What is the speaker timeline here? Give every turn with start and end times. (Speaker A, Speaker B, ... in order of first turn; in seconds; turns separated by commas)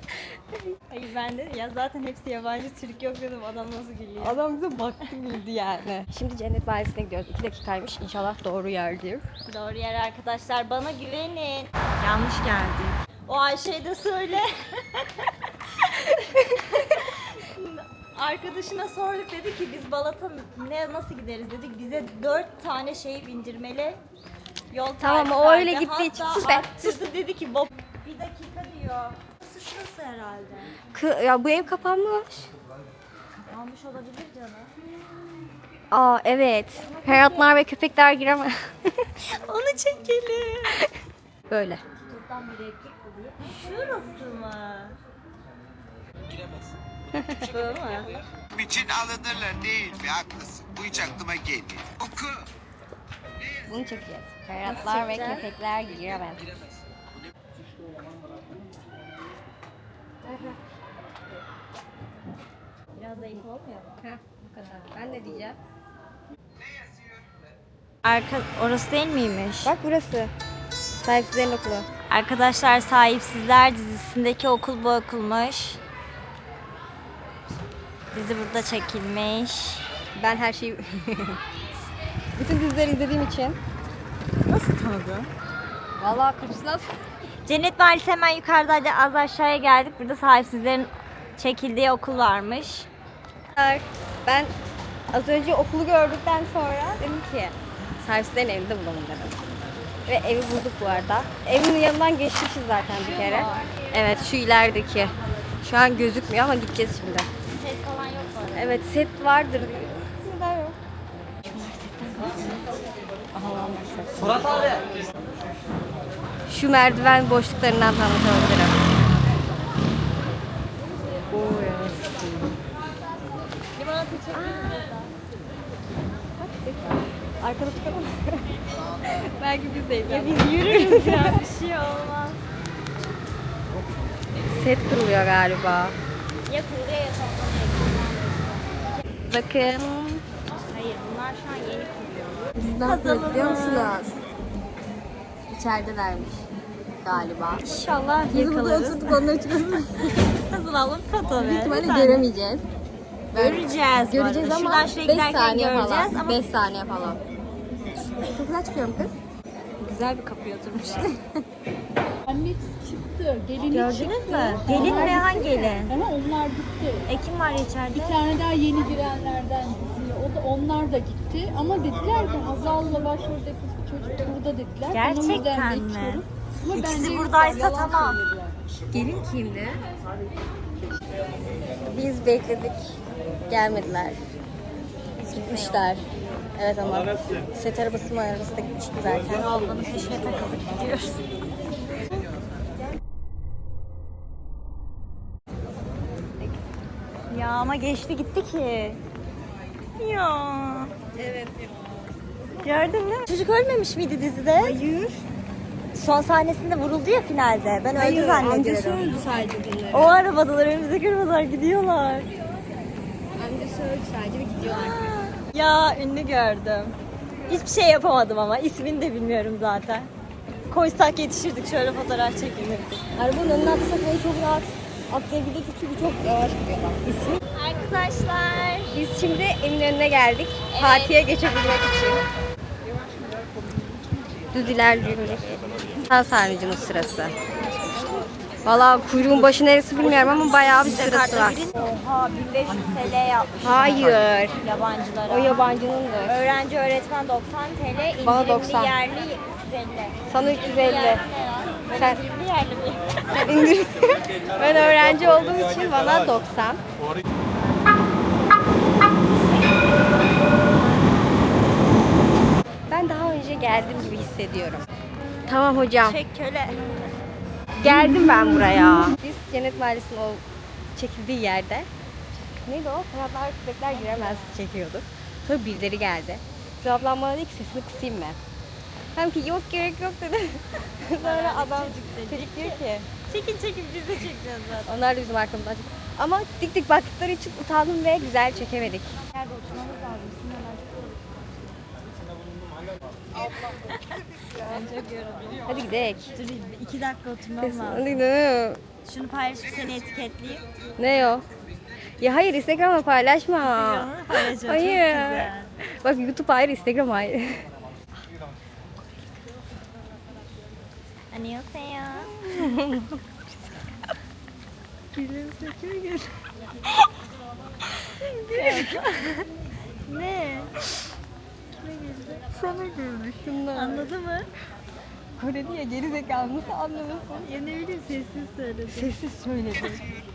Speaker A: 0.9-4.4, Speaker B: 4.2-9.2, Speaker A: 9.5-16.2, Speaker B: 16.2-16.8, Speaker A: 16.7-24.0, Speaker A: 24.7-30.8, Speaker B: 25.0-27.0, Speaker B: 30.9-32.5, Speaker A: 33.4-34.7, Speaker B: 35.9-39.0, Speaker A: 36.9-37.5, Speaker A: 39.3-40.8, Speaker B: 41.5-41.8, Speaker A: 42.1-45.0, Speaker B: 47.2-47.4, Speaker A: 47.4-48.2, Speaker C: 48.6-52.2, Speaker B: 53.7-56.5, Speaker A: 54.6-55.5, Speaker B: 60.3-60.6, Speaker A: 63.0-64.0, Speaker B: 64.0-65.6, Speaker A: 68.0-69.7, Speaker B: 69.6-70.3, Speaker B: 71.0-71.9, Speaker A: 72.1-75.8, Speaker A: 78.1-79.8, Speaker B: 80.2-81.4, Speaker B: 82.4-83.6, Speaker A: 84.4-85.3, Speaker B: 86.0-86.9, Speaker A: 87.5-92.9, Speaker B: 93.6-94.5, Speaker B: 95.1-99.4, Speaker B: 100.1-107.3, Speaker A: 103.0-103.8, Speaker A: 107.5-108.8, Speaker B: 108.5-110.8, Speaker B: 111.5-112.6, Speaker A: 112.1-112.6, Speaker B: 113.4-114.4, Speaker A: 113.4-114.7, Speaker B: 116.5-118.8, Speaker B: 121.3-122.4, Speaker A: 121.5-121.8, Speaker A: 123.8-125.1, Speaker B: 124.3-124.9, Speaker B: 126.4-128.5, Speaker B: 129.0-131.4, Speaker A: 130.1-132.4, Speaker B: 134.4-135.9, Speaker A: 136.5-139.0, Speaker B: 139.3-140.2, Speaker A: 140.5-144.0, Speaker B: 142.6-144.2, Speaker B: 145.5-146.5, Speaker B: 147.0-147.7, Speaker A: 147.6-149.3, Speaker B: 148.2-150.1, Speaker A: 150.1-152.3, Speaker B: 151.4-152.7, Speaker B: 153.3-157.2, Speaker A: 153.3-156.4, Speaker B: 158.2-159.1, Speaker A: 159.8-161.2, Speaker D: 162.3-167.1, Speaker A: 163.7-166.0, Speaker B: 164.7-165.3, Speaker A: 167.1-168.2, Speaker D: 167.9-178.6, Speaker A: 174.9-178.2, Speaker B: 178.9-179.8, Speaker B: 181.8-184.2, Speaker A: 185.2-185.9, Speaker B: 185.3-186.1, Speaker B: 186.6-189.7, Speaker A: 189.5-191.2, Speaker A: 197.3-199.0, Speaker A: 200.0-200.9, Speaker B: 201.2-201.6, Speaker A: 202.6-204.8, Speaker B: 204.6-205.2, Speaker A: 205.9-209.2, Speaker B: 207.9-210.2, Speaker A: 209.9-212.3, Speaker B: 213.4-215.1, Speaker A: 214.6-217.0, Speaker A: 217.5-220.1, Speaker A: 220.7-223.0, Speaker B: 223.2-227.4, Speaker A: 227.5-229.0, Speaker B: 228.9-232.2, Speaker A: 230.7-231.2, Speaker B: 234.5-237.3, Speaker B: 238.7-241.7, Speaker A: 240.0-245.7, Speaker B: 243.6-244.6, Speaker B: 245.3-246.5, Speaker A: 246.3-253.2, Speaker B: 248.2-249.0, Speaker B: 250.3-251.2, Speaker B: 251.9-252.2, Speaker B: 253.3-256.8, Speaker B: 262.9-264.9, Speaker B: 265.5-266.2, Speaker A: 266.0-267.0, Speaker B: 267.8-270.4, Speaker B: 271.0-271.9, Speaker B: 272.6-278.4, Speaker A: 273.9-274.6, Speaker B: 279.1-283.1, Speaker A: 281.2-284.9, Speaker B: 284.9-289.2, Speaker A: 289.3-291.8, Speaker A: 293.4-295.7, Speaker B: 295.7-296.3, Speaker A: 296.3-298.2, Speaker B: 297.6-298.8, Speaker A: 299.0-300.6, Speaker B: 301.0-301.4, Speaker B: 302.2-307.7, Speaker A: 303.6-305.8, Speaker A: 311.3-312.9, Speaker B: 312.5-313.2, Speaker A: 315.1-316.3, Speaker A: 318.1-319.5, Speaker B: 318.5-319.1, Speaker A: 320.1-320.7, Speaker A: 321.8-324.5, Speaker B: 322.7-324.1, Speaker B: 325.4-327.5, Speaker A: 327.4-329.1, Speaker B: 328.9-330.1